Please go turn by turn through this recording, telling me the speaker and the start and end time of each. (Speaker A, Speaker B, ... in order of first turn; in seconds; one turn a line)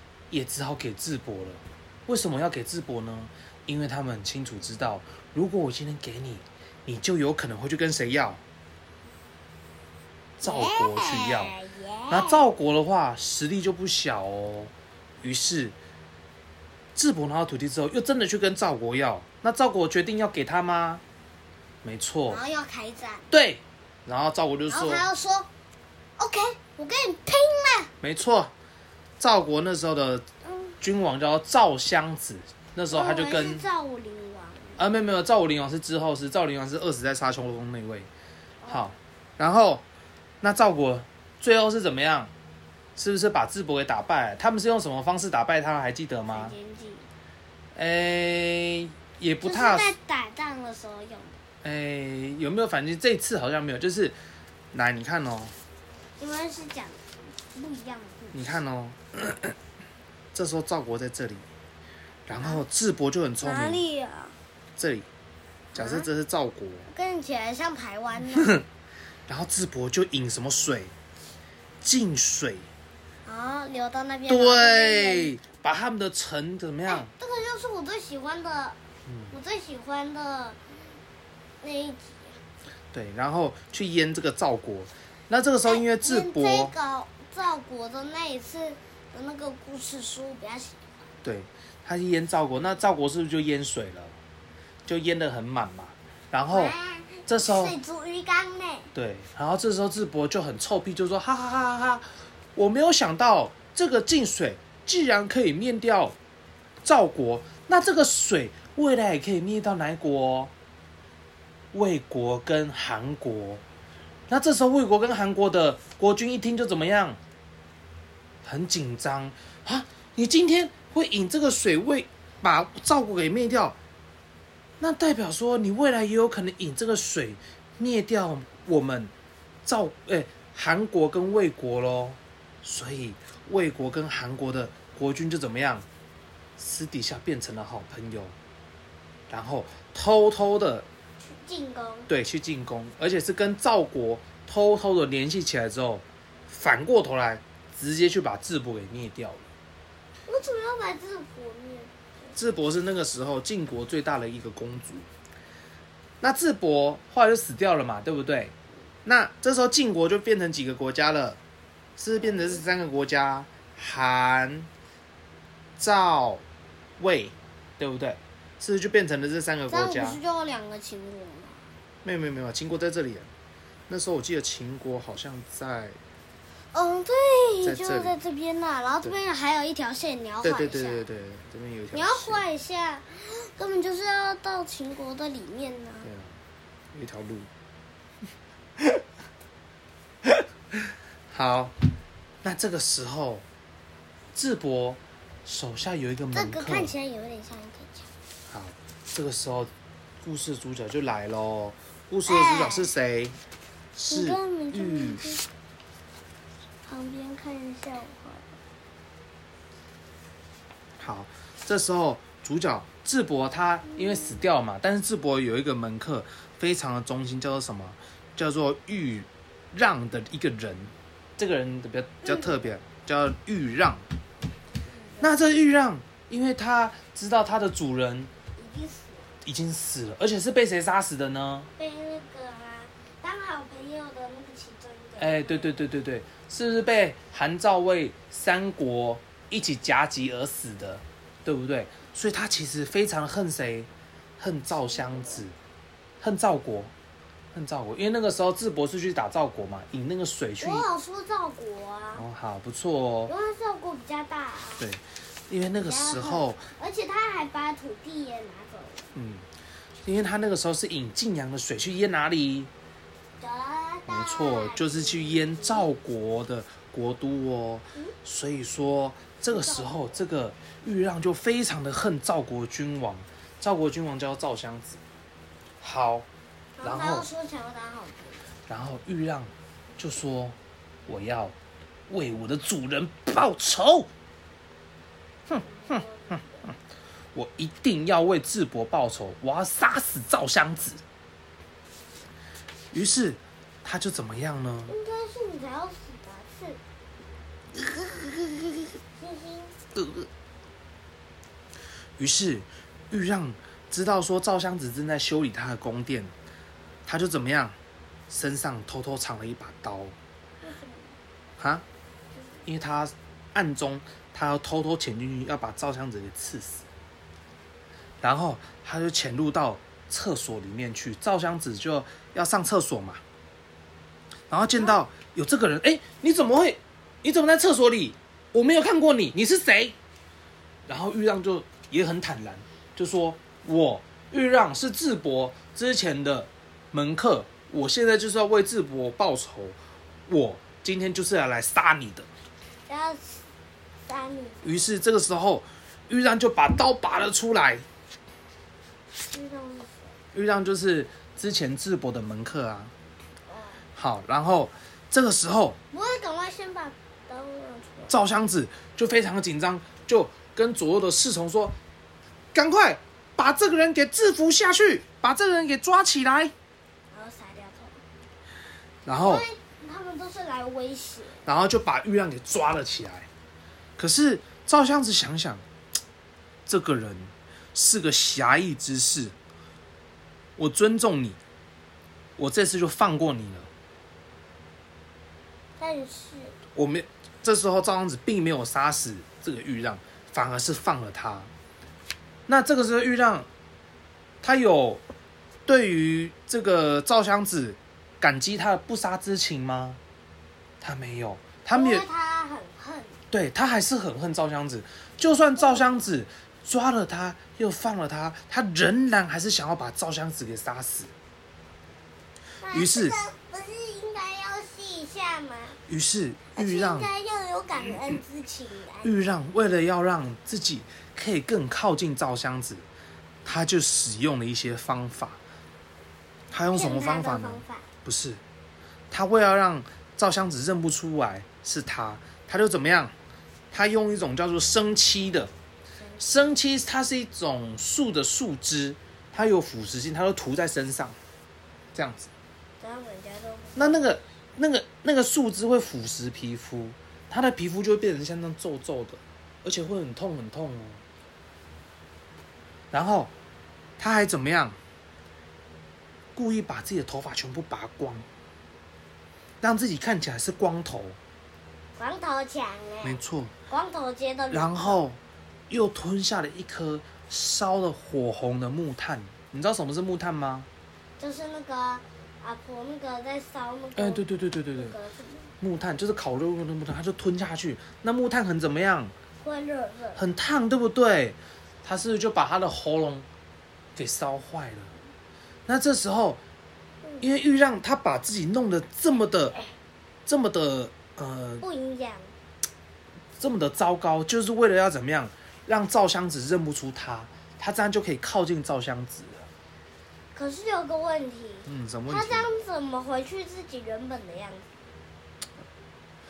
Speaker A: 0.3-8.4
Speaker A: 10.4-11.6
Speaker B: 10.4-12.4
Speaker A: 12.1-15.7
Speaker A: 16.9-21.0
Speaker A: 21.8-22.4
Speaker B: 22.3-23.2
Speaker A: 23.3-25.1
Speaker B: 24.7-25.5
Speaker B: 26.2-27.9
Speaker A: 28.0-28.5
Speaker A: 29.2-30.2
Speaker B: 30.4-30.8
Speaker A: 30.8-33.6
Speaker B: 32.9-34.8
Speaker A: 34.8-38.1
Speaker B: 38.6-38.9
Speaker A: 38.7-39.8
Speaker A: 40.4-42.3
Speaker A: 43.0-46.5
Speaker B: 46.3-47.1
Speaker A: 47.7-49.9
Speaker B: 49.4-51.4
Speaker A: 51.6-54.1
Speaker A: 54.7-55.5
Speaker B: 56.2-57.0
Speaker B: 57.5-58.5
Speaker A: 58.3-59.5
Speaker A: 60.3-61.4
Speaker A: 62.3-63.8
Speaker B: 62.3-62.6
Speaker B: 63.4-64.3
Speaker A: 64.8-65.0
Speaker A: 65.7-66.9
Speaker B: 65.7-66.1
Speaker B: 66.9-68.6
Speaker A: 68.3-68.6
Speaker A: 69.3-70.9
Speaker A: 71.8-72.7
Speaker B: 73.2-75.3
Speaker A: 74.3-77.1
Speaker B: 76.9-78.8
Speaker A: 79.0-79.4
Speaker B: 79.3-80.6
Speaker B: 81.6-82.4
Speaker A: 82.9-86.7
Speaker B: 85.6-90.8
Speaker A: 91.2-94.2
Speaker A: 94.8-96.8
Speaker B: 96.5-98.9
Speaker A: 97.3-97.8
Speaker A: 98.9-102.0
Speaker A: 102.5-106.1
Speaker A: 106.8-110.5
Speaker A: 111.7-113.6
Speaker A: 114.3-117.2
Speaker A: 118.4-123.8
Speaker A: 124.8-129.1
Speaker A: 129.6-135.8
Speaker A: 136.6-138.3
Speaker A: 139.3-140.9
Speaker B: 141.2-142.1
Speaker A: 142.1-149.5
Speaker B: 150.3-152.3
Speaker A: 152.3-155.1
Speaker A: 156.2-158.5
Speaker A: 159.0-161.4
Speaker A: 162.0-164.7
Speaker A: 165.8-166.4
Speaker A: 167.0-170.2
Speaker B: 169.7-171.7
Speaker A: 172.0-173.3
Speaker A: 173.9-176.0
Speaker B: 176.7-181.0
Speaker A: 177.6-178.2
Speaker A: 180.4-182.4
Speaker B: 181.9-186.1
Speaker A: 186.0-186.4
Speaker A: 186.9-187.5
Speaker A: 190.2-190.8
Speaker A: 191.3-191.7
Speaker A: 192.4-193.4
Speaker A: 194.3-196.9
Speaker B: 196.3-198.1
Speaker A: 198.5-199.7
Speaker A: 200.2-203.4
Speaker B: 202.2-202.9
Speaker A: 203.9-205.3
Speaker B: 204.0-205.4
Speaker B: 206.8-208.6
Speaker A: 211.0-224.0
Speaker B: 224.9-225.3
Speaker A: 225.2-228.3
Speaker B: 228.6-229.3
Speaker A: 229.4-231.7
Speaker B: 231.8-235.8
Speaker A: 235.2-245.5
Speaker B: 244.9-245.4
Speaker A: 246.2-246.9
Speaker A: 247.5-250.9
Speaker B: 250.6-252.2
Speaker A: 252.1-253.3
Speaker B: 253.3-254.8
Speaker A: 254.8-256.6
Speaker B: 255.7-259.1
Speaker A: 259.1-259.4
Speaker A: 260.0-262.7
Speaker B: 263.4-266.0
Speaker A: 264.1-275.0
Speaker B: 269.5-269.9
Speaker A: 275.8-276.3
Speaker B: 276.8-278.4
Speaker A: 276.8-277.3
Speaker A: 278.7-280.6
Speaker A: 281.1-281.5
Speaker A: 282.1-284.1
Speaker A: 285.5-286.7
Speaker B: 285.6-286.7
Speaker A: 287.3-291.0
Speaker A: 292.9-294.9
Speaker B: 294.9-296.8
Speaker B: 299.1-299.8
Speaker A: 299.9-300.3
Speaker A: 302.2-306.3
Speaker A: 307.1-307.8
Speaker A: 308.3-310.1
Speaker B: 310.6-311.2
Speaker A: 311.6-311.8
Speaker A: 312.6-316.9
Speaker A: 318.2-323.2
Speaker A: 324.5-329.9
Speaker A: 330.9-342.3
Speaker B: 342.9-343.4
Speaker B: 344.1-344.9
Speaker A: 344.6-347.8
Speaker B: 349.1-350.1
Speaker A: 350.3-352.9
Speaker B: 353.5-353.8
Speaker A: 353.9-355.8
Speaker B: 355.9-358.1
Speaker A: 358.1-361.7
Speaker A: 362.5-366.5
Speaker B: 367.1-368.0
Speaker A: 369.1-369.4
Speaker B: 369.1-371.4
Speaker A: 371.4-373.3
Speaker A: 374.0-375.6
Speaker A: 376.7-379.3
Speaker A: 380.6-381.4
Speaker A: 382.4-383.7
Speaker B: 385.8-386.6
Speaker A: 386.7-391.5
Speaker A: 392.5-393.5
Speaker A: 394.4-395.0
Speaker A: 395.6-400.0
Speaker A: 400.8-402.0
Speaker B: 401.7-403.1
Speaker A: 403.3-411.1
Speaker B: 405.5-406.1
Speaker B: 412.6-415.8
Speaker A: 412.7-413.2
Speaker A: 415.9-417.1
Speaker B: 416.5-419.1
Speaker A: 419.0-422.8
Speaker A: 423.4-425.4
Speaker A: 426.5-428.4
Speaker B: 426.7-427.8
Speaker A: 429.1-433.1
Speaker A: 433.7-435.5
Speaker B: 436.0-436.6
Speaker A: 436.2-441.2
Speaker A: 441.9-442.3
Speaker B: 442.8-444.1
Speaker A: 443.8-451.0
Speaker A: 452.9-453.3
Speaker A: 454.0-454.8
Speaker A: 456.3-458.2
Speaker A: 459.6-461.2
Speaker B: 462.0-465.0
Speaker A: 463.0-463.5
Speaker A: 464.5-470.7
Speaker B: 471.2-475.5
Speaker A: 473.9-474.9
Speaker A: 475.6-479.1
Speaker B: 479.4-480.2
Speaker A: 480.1-483.2
Speaker A: 483.9-484.9
Speaker A: 485.7-486.4
Speaker A: 487.2-489.6
Speaker A: 490.3-491.6
Speaker B: 491.6-492.3
Speaker A: 493.4-499.5
Speaker B: 500.3-504.7
Speaker A: 501.6-502.5